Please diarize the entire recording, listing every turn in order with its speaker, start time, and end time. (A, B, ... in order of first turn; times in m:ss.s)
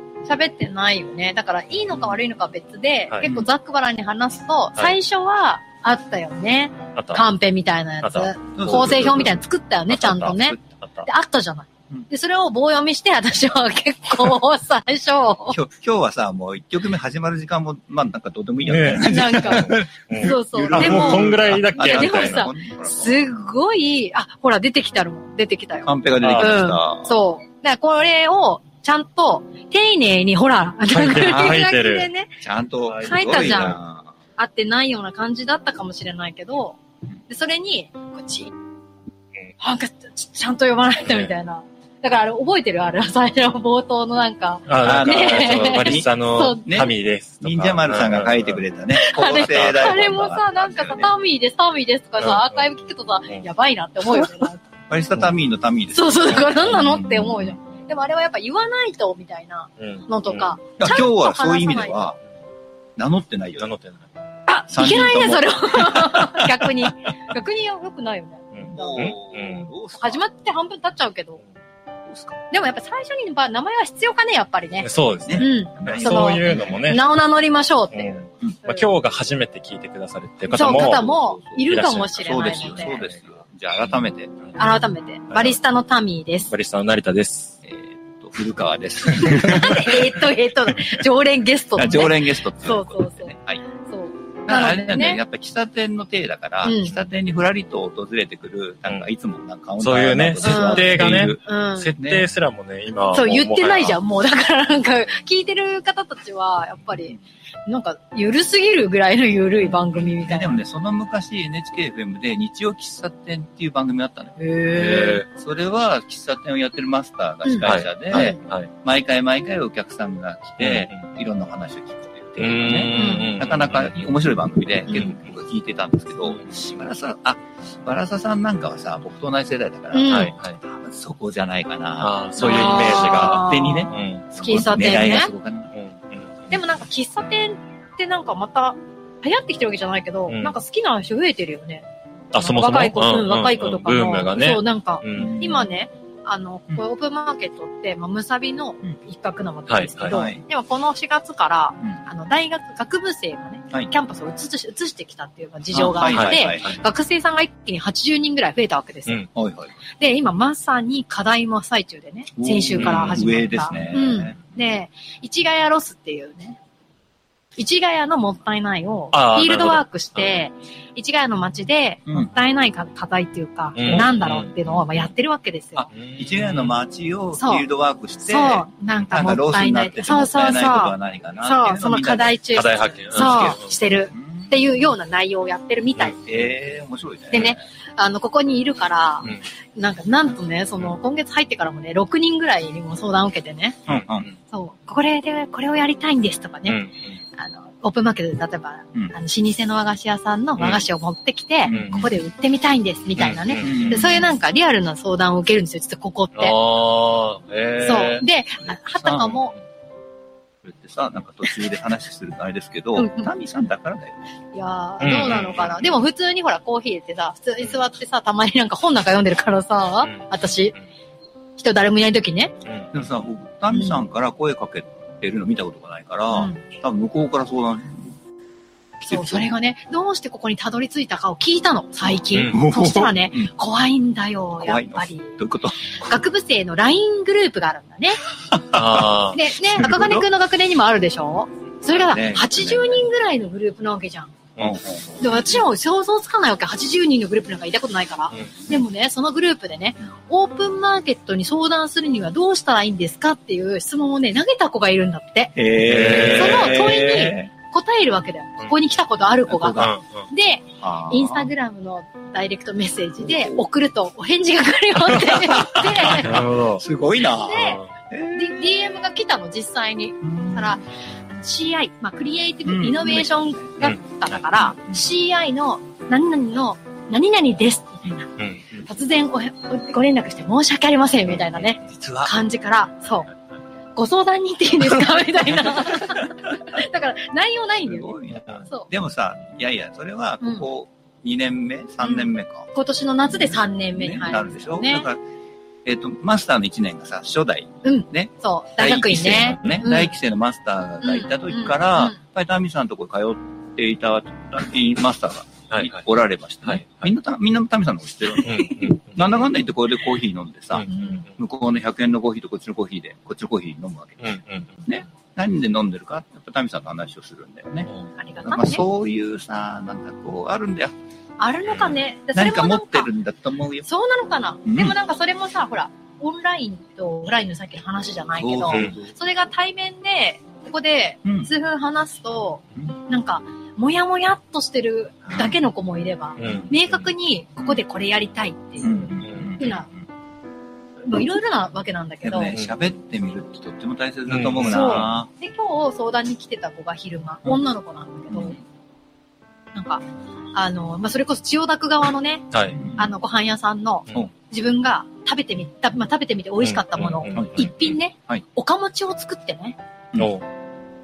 0:00.2-0:15.6 A
0:07.0-0:07.2 B
0:08.0-0:09.2 B
0:08.6-0:09.4 C
0:09.9-0:11.1 B
0:15.5-0:23.2 C
0:18.6-0:22.5 B
0:19.0-0:32.3 A
0:25.8-0:27.1 C
0:26.2-0:26.6 B
0:30.9-0:32.1 B
0:32.4-0:34.1 C
0:32.8-0:33.8 B
0:33.0-0:33.8 A
0:34.4-0:38.5 A
0:39.6-0:46.8 A
0:44.7-0:48.6 B
0:44.8-0:46.1 C
0:46.6-0:51.1 C
0:48.9-0:54.6 A
0:49.2-0:50.0 B
0:52.2-0:52.7 B
0:54.9-0:57.3 C
0:55.9-1:02.1 A
0:56.5-0:57.5 B
0:59.8-1:00.5 B
1:00.8-1:02.2 C
1:03.0-1:03.7 C
1:03.6-1:04.1 B
1:04.5-1:09.2 A
1:04.7-1:06.9 C
1:08.5-1:09.7 B
1:08.6-1:10.2 C
1:10.0-1:11.4 A
1:12.1-1:12.4 C
1:12.5-1:18.9 A
1:14.8-1:17.0 B
1:15.2-1:16.7 C
1:17.9-1:21.0 B
1:20.5-1:21.6 C
1:20.5-1:23.0 A
1:21.7-1:23.2 B
1:22.2-1:24.4 C
1:24.5-1:26.5 A
1:25.3-1:25.6 B
1:26.5-1:27.6 B
1:27.6-1:30.1 C
1:29.2-1:33.3 A
1:31.8-1:33.6 C
1:33.8-1:35.2 A
1:34.5-1:41.5 C
1:36.6-1:36.9 A
1:39.8-1:44.0 B
1:40.4-1:41.9 A
1:42.0-1:42.2 C
1:43.1-1:50.6 A
1:50.0-1:54.4 C
1:54.4-1:55.2 A
1:54.7-1:55.2 B
1:55.3-2:15.7 C
1:57.4-1:58.4 A
1:57.6-1:58.7 B
2:00.6-2:01.0 B
2:02.4-2:04.1 B
2:02.9-2:03.3 A
2:04.9-2:05.2 B
2:09.9-2:10.3 A
2:10.1-2:10.6 B
2:12.0-2:14.3 B
2:12.4-2:15.3 A
2:15.7-2:16.5 B
2:16.5-2:21.8 A
2:20.3-2:20.5 B
2:22.3-2:25.4 B
2:22.4-2:39.2 A
2:25.1-2:25.6 C
2:29.7-2:30.2 B
2:30.1-2:30.4 C
2:35.7-2:36.8 C
2:36.1-2:36.7 B
2:39.3-2:39.7 C
2:40.0-2:46.6 A
2:42.4-2:44.4 C
2:42.8-2:43.3 B
2:47.6-2:55.9 A
2:49.1-2:50.4 B
2:53.7-2:55.1 B
2:53.8-2:54.1 C
2:55.8-3:02.4 C
2:55.9-2:56.8 B
2:57.3-2:57.6 A
2:58.2-3:06.2 A
3:02.5-3:03.7 B
3:03.1-3:03.6 C
3:04.1-3:04.5 C
3:06.2-3:07.6 C
3:07.3-3:13.8 A
3:13.9-3:14.3 C
3:13.9-3:14.3 B
3:14.5-3:16.8 A
3:16.7-3:17.2 B
3:17.4-3:26.6 A
3:21.6-3:22.1 C
3:21.7-3:22.0 B
3:23.2-3:24.1 B
3:23.6-3:24.3 C
3:26.4-3:28.2 B
3:27.8-3:29.5 A
3:29.0-3:29.3 C
3:30.6-3:34.2 C
3:32.9-3:33.3 A
3:34.5-3:40.8 A
3:35.0-3:35.9 B
3:41.6-3:42.6 A
3:42.9-3:48.1 C
3:43.7-3:44.0 A
3:46.3-3:46.6 A
3:49.0-3:58.2 A
3:49.0-3:49.5 C
3:52.4-3:53.5 C
3:54.6-3:56.0 C
3:58.5-3:59.1 C
3:58.7-3:59.4 B
3:59.3-4:04.3 A
3:59.8-4:00.2 C
4:01.9-4:03.0 C
4:04.6-4:05.6 C
4:05.2-4:15.6 A
4:15.5-4:17.5 C
4:15.8-4:16.8 B
4:16.3-4:26.4 A
4:19.5-4:19.9 C
4:19.7-4:20.3 B
4:20.8-4:21.5 C
4:23.2-4:23.6 C
4:25.1-4:28.6 C
4:26.0-4:26.8 B
4:27.2-4:27.8 A
4:27.6-4:27.9 B
4:28.3-4:43.3 A
4:30.2-4:30.8 C
4:32.6-4:33.7 C
4:38.4-4:38.6 B
4:41.8-4:42.3 C
4:44.0-4:48.9 A
4:45.6-4:46.3 C
4:47.8-4:52.7 C
4:50.4-4:50.6 A
4:52.0-4:55.1 A
4:53.3-4:55.2 C
4:55.8-5:17.9 C
4:57.8-5:00.1 A
5:01.0-5:02.2 A
5:05.7-5:06.0 B
5:06.6-5:07.0 B
5:08.4-5:09.3 B
5:10.7-5:11.2 B
5:10.9-5:11.2 A
5:14.2-5:14.8 B
5:18.2-5:18.8 A
5:18.4-5:20.9 C
5:21.4-5:23.1 A
5:22.3-5:23.9 C
5:23.8-5:39.9 A
5:24.6-5:25.0 C
5:28.4-5:29.1 C
5:35.3-5:35.5 C
5:36.4-5:36.9 B
5:36.4-5:36.7 C
5:38.8-5:39.8 C
5:39.2-5:39.5 B
5:41.0-5:42.5 A
5:42.2-5:45.3 C
5:44.3-5:45.1 B
5:44.6-5:48.6 A
5:48.3-5:48.6 C
5:49.7-5:59.8 A
5:52.5-5:52.8 B
5:52.7-5:53.1 C
5:56.6-5:57.7 B
5:57.3-5:57.7 C
6:00.2-6:00.4 B